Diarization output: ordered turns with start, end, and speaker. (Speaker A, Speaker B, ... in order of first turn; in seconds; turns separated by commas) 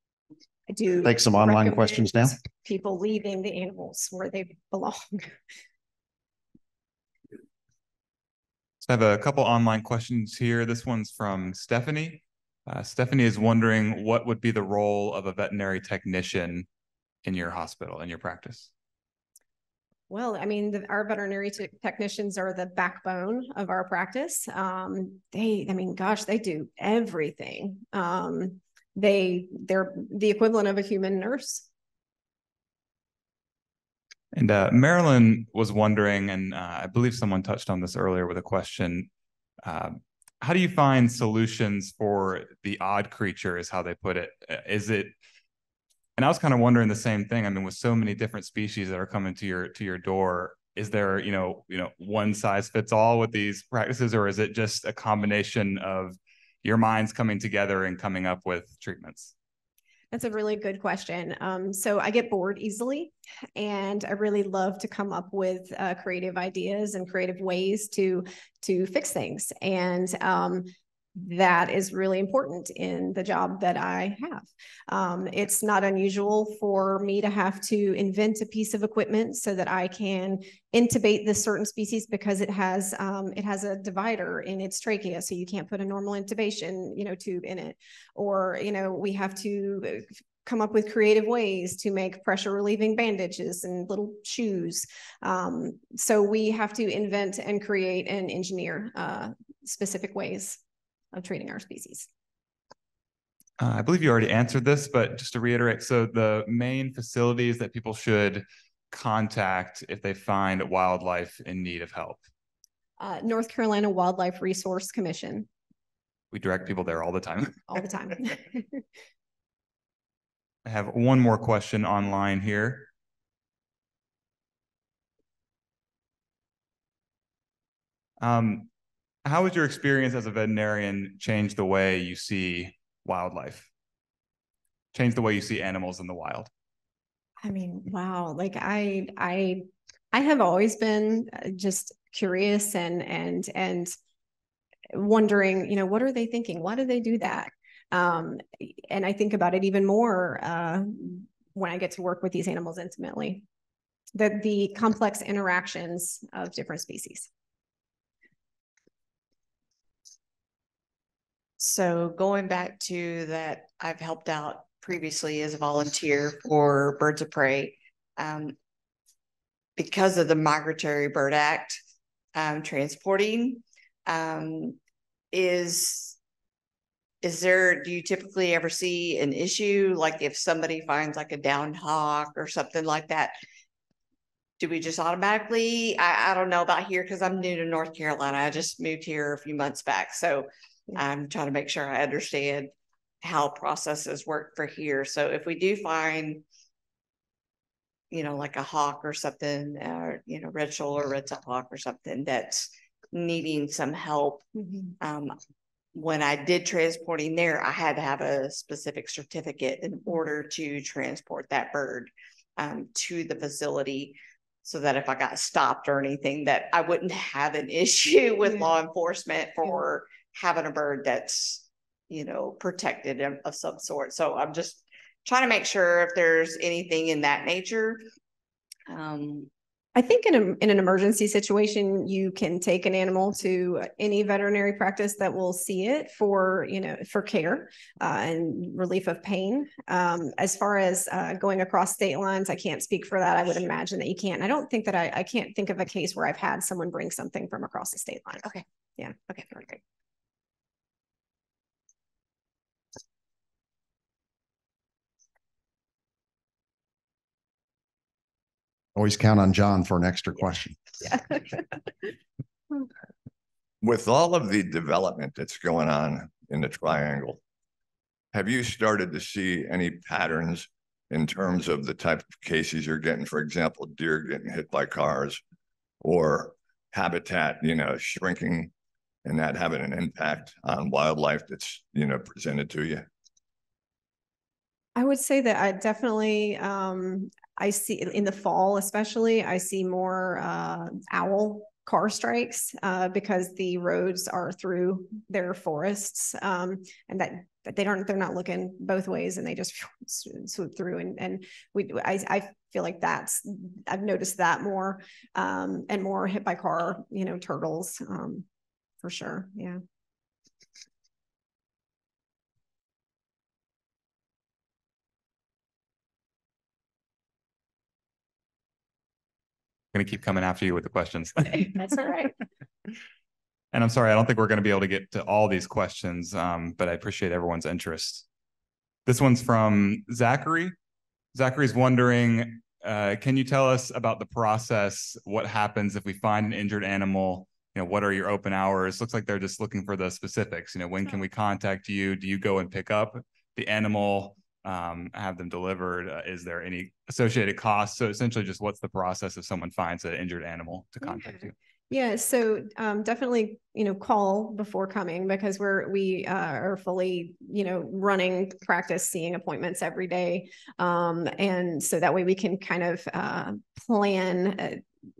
Speaker A: 0.7-5.3, Speaker B: 1.0-2.4, Speaker C: 8.8-16.7, Speaker C: 17.2-18.7, Speaker A: 20.1-31.6, Speaker C: 34.3-39.1, Speaker C: 39.6-45.1, Speaker C: 46.2-59.3, Speaker A: 60.1-100.6, Speaker A: 101.1-102.1, Speaker C: 103.6-112.2, Speaker A: 113.0-115.5, Speaker C: 116.3-117.6, Speaker A: 117.7-118.8, Speaker C: 120.6-122.9, Speaker C: 128.2-128.7, Speaker C: 129.2-133.7, Speaker C: 134.9-136.5, Speaker A: 137.4-143.9, Speaker A: 144.9-153.4, Speaker A: 154.1-157.3, Speaker D: 161.6-168.5, Speaker D: 169.8-171.8, Speaker D: 172.3-174.8, Speaker D: 175.3-176.2, Speaker D: 177.2-183.3, Speaker D: 184.6-192.7, Speaker D: 193.2-196.4, Speaker D: 198.1-204.5, Speaker D: 205.0-205.3, Speaker D: 205.9-228.0, Speaker D: 228.9-229.5, Speaker A: 229.9-249.8, Speaker B: 258.9-260.8, Speaker E: 263.8-267.4, Speaker E: 268.3-275.4, Speaker E: 276.0-278.7, Speaker E: 279.2-283.1, Speaker A: 284.9-308.4, Speaker A: 309.0-309.8, Speaker C: 319.9-321.8, Speaker A: 321.8-322.3, Speaker C: 323.7-328.2, Speaker C: 329.1-330.7, Speaker C: 331.3-351.5, Speaker A: 351.0-364.8